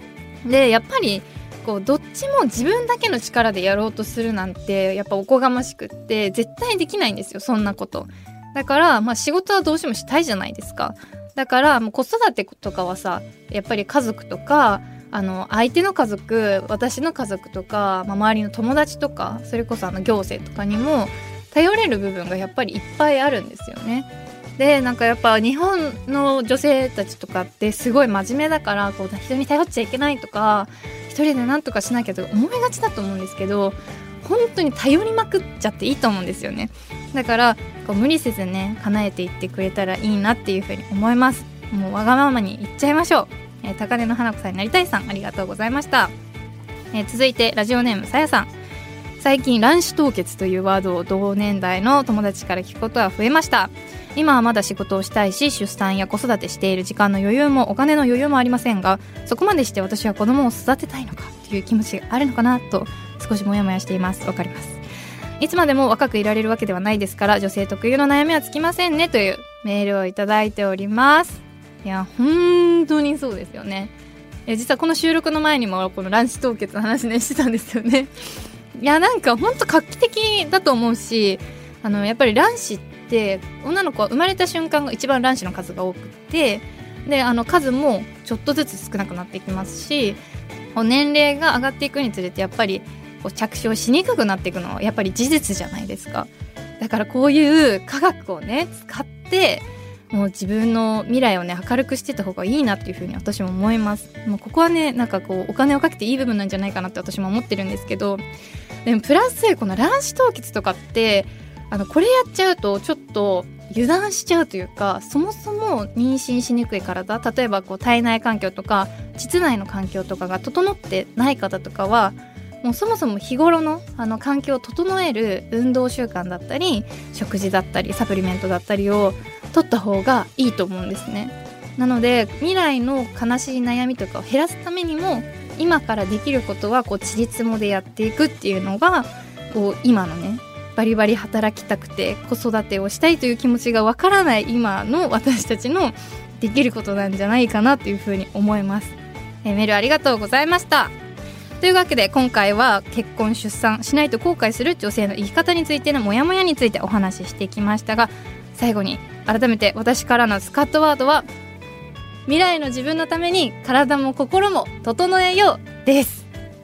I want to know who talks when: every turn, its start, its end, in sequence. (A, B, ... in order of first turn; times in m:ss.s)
0:00.5-0:46.1 A
0:46.9-0:48.5 A
0:49.2-1:04.8 A
1:05.4-1:13.9 A
1:14.5-1:18.1 A
1:18.8-1:30.2 A
1:30.8-1:36.3 A
1:36.8-1:48.2 A
1:48.8-2:30.9 A
2:31.6-2:41.3 A
2:42.3-2:46.3 A